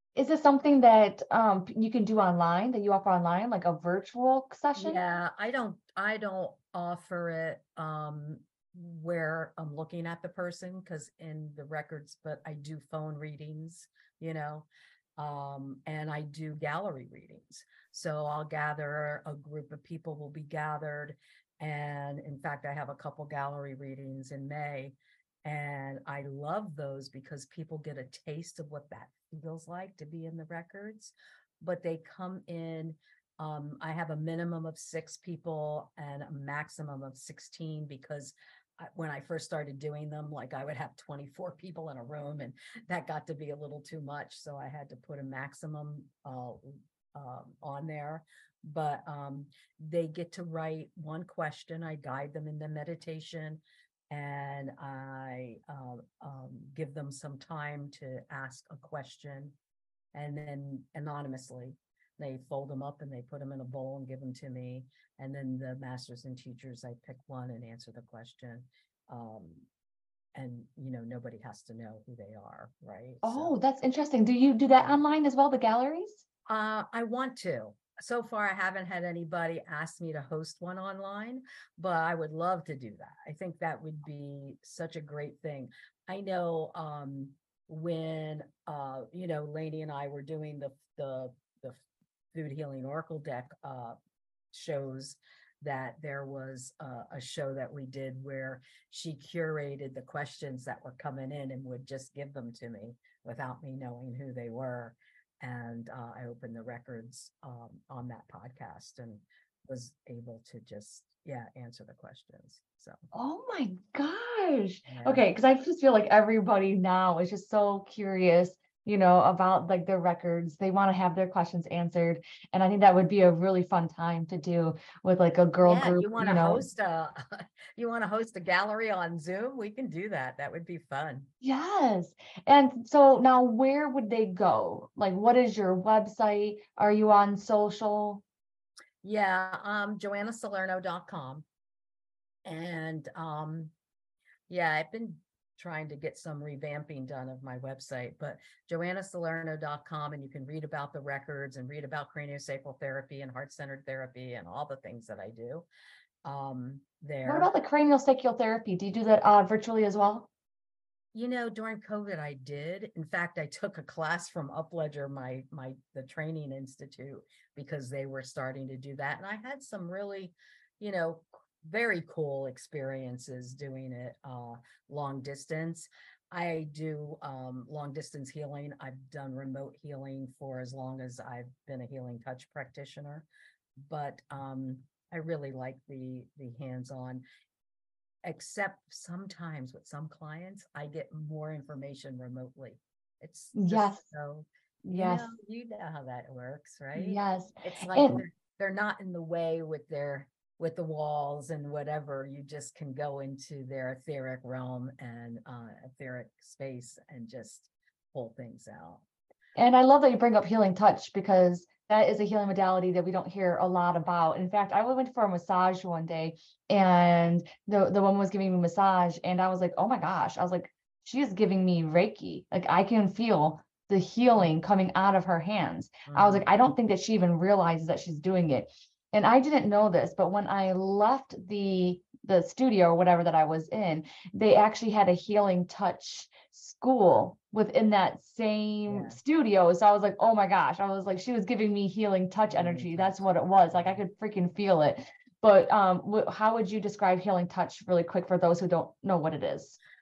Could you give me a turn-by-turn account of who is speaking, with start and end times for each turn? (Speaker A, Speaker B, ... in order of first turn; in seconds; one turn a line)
Speaker A: 0.2-5.0
Speaker B: 4.8-59.6
Speaker B: 60.1-69.7
Speaker B: 70.3-73.5
Speaker A: 73.2-76.2
Speaker B: 76.5-91.8
Speaker B: 92.3-94.0
Speaker B: 94.5-113.0
Speaker A: 113.1-126.7
Speaker B: 114.9-115.2
Speaker B: 125.6-131.3
Speaker A: 131.4-138.2
Speaker B: 139.0-141.5
Speaker B: 142.4-143.7
Speaker B: 144.5-155.7
Speaker B: 156.2-157.5
Speaker A: 157.3-160.3
Speaker B: 161.1-183.3
Speaker B: 183.8-187.2
Speaker B: 188.2-209.1
Speaker A: 193.5-194.1
Speaker A: 194.8-195.3
Speaker A: 196.9-198.2
Speaker A: 209.6-249.8
Speaker B: 226.1-226.4
Speaker B: 238.9-239.2
Speaker B: 242.5-244.0